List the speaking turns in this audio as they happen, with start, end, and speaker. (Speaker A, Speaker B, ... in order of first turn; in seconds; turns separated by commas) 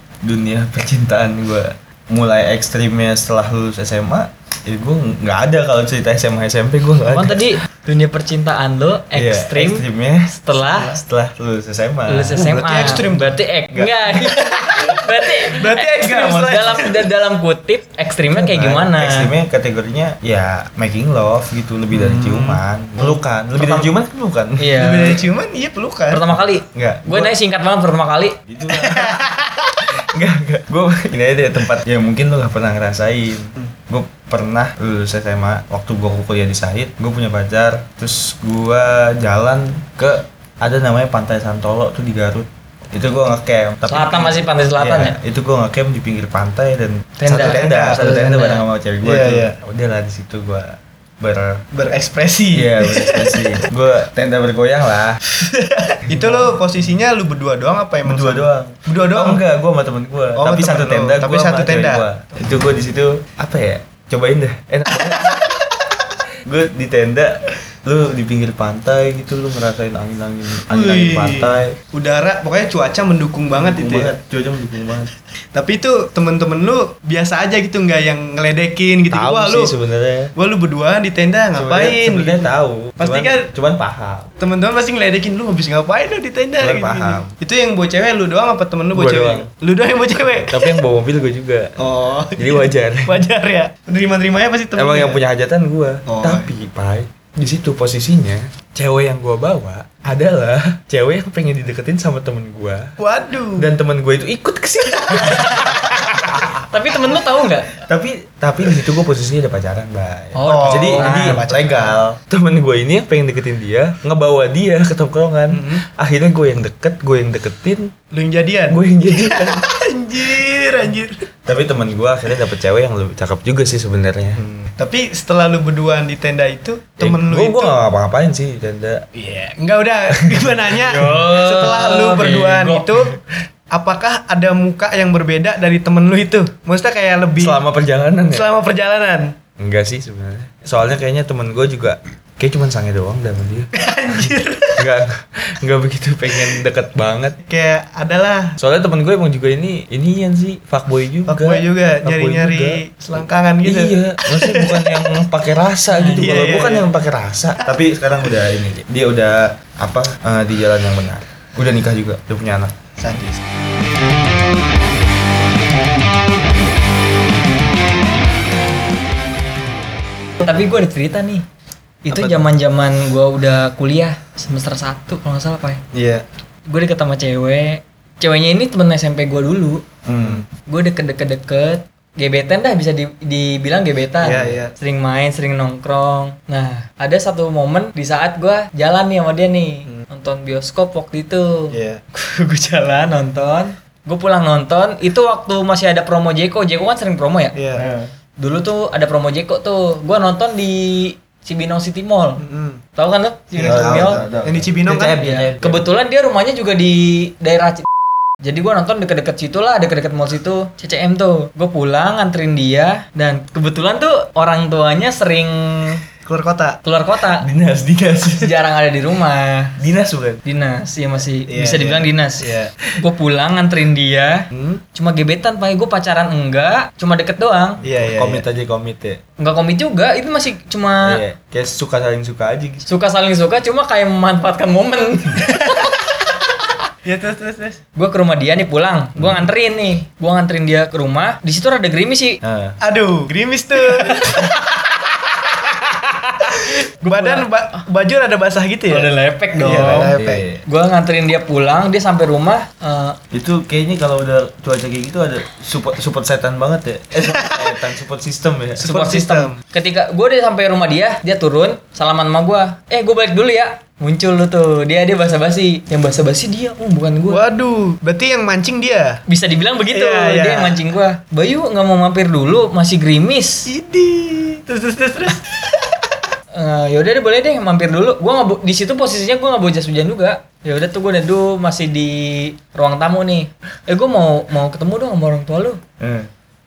Speaker A: 0.2-7.5, Speaker B: 7.0-11.0, Speaker A: 9.1-13.0, Speaker B: 12.1-19.3, Speaker C: 12.3-13.4, Speaker C: 14.1-17.1, Speaker A: 18.2-24.7, Speaker C: 21.9-23.2, Speaker B: 23.6-23.9, Speaker B: 24.6-25.2, Speaker C: 24.8-26.2, Speaker B: 26.1-28.4, Speaker A: 26.4-27.3, Speaker A: 28.5-29.2, Speaker C: 28.7-29.8, Speaker A: 29.9-51.6, Speaker B: 43.9-45.2, Speaker B: 47.2-48.6, Speaker C: 47.3-48.0, Speaker C: 49.0-49.6, Speaker C: 51.7-53.5, Speaker A: 52.5-55.2, Speaker C: 55.4-59.4, Speaker A: 56.1-56.5, Speaker A: 58.0-65.5, Speaker C: 60.4-62.1, Speaker C: 65.2-65.6, Speaker A: 66.5-71.8, Speaker C: 70.7-74.1, Speaker A: 73.6-75.1, Speaker C: 75.5-79.8, Speaker A: 79.1-80.3, Speaker C: 80.3-83.5, Speaker A: 81.5-84.3, Speaker C: 84.4-90.7, Speaker A: 86.6-87.3, Speaker A: 88.9-89.5, Speaker A: 90.5-91.8, Speaker C: 91.8-95.2, Speaker A: 92.4-93.2, Speaker A: 94.8-102.9, Speaker C: 96.1-96.5, Speaker C: 103.0-103.7, Speaker A: 103.6-106.5, Speaker C: 105.0-105.8, Speaker B: 106.5-107.8, Speaker A: 107.8-117.9, Speaker B: 110.3-111.4, Speaker C: 110.4-112.0, Speaker C: 115.5-115.8, Speaker C: 118.1-121.2, Speaker A: 118.7-119.7, Speaker A: 121.5-124.4, Speaker C: 124.4-127.8, Speaker A: 127.0-129.1, Speaker C: 129.1-137.6, Speaker B: 130.8-132.9, Speaker A: 137.4-138.5, Speaker C: 138.3-139.3, Speaker A: 139.6-147.4, Speaker C: 143.7-144.8, Speaker C: 147.5-148.6, Speaker A: 148.6-162.7, Speaker C: 151.3-154.9, Speaker B: 155.9-156.4, Speaker C: 156.1-156.9, Speaker C: 163.0-163.4, Speaker B: 170.4-171.4, Speaker B: 172.1-175.8, Speaker C: 175.9-176.2, Speaker B: 176.7-179.8, Speaker A: 180.1-180.4, Speaker C: 180.2-180.4, Speaker B: 180.7-197.6, Speaker C: 184.2-184.7, Speaker C: 191.7-192.0, Speaker C: 197.6-197.9, Speaker A: 197.8-198.1, Speaker B: 198.4-202.4, Speaker C: 202.4-202.8, Speaker B: 203.0-204.2, Speaker C: 203.6-205.3, Speaker A: 203.6-205.9, Speaker B: 204.9-207.9, Speaker B: 208.4-216.0, Speaker C: 216.2-216.8, Speaker B: 216.8-217.5, Speaker A: 217.4-218.6, Speaker B: 218.4-219.8, Speaker A: 219.8-220.4, Speaker B: 220.4-227.8, Speaker C: 221.5-222.7, Speaker C: 224.5-224.8, Speaker C: 227.8-228.4, Speaker A: 227.8-229.2, Speaker B: 229.4-231.2, Speaker A: 231.1-232.8, Speaker B: 232.8-236.5, Speaker C: 235.5-235.8, Speaker C: 237.1-237.8, Speaker B: 237.9-242.4, Speaker A: 239.2-239.5, Speaker A: 242.4-242.8, Speaker C: 242.8-244.6, Speaker B: 243.9-244.5, Speaker B: 245.9-247.5, Speaker C: 247.1-250.4, Speaker B: 248.9-253.2, Speaker A: 250.1-250.6, Speaker A: 253.3-258.9, Speaker C: 257.2-257.8, Speaker C: 258.8-259.6, Speaker B: 258.8-267.4, Speaker C: 267.3-269.2, Speaker B: 269.3-273.7, Speaker C: 269.9-270.8, Speaker C: 273.6-276.0, Speaker B: 276.5-285.8, Speaker A: 286.0-286.3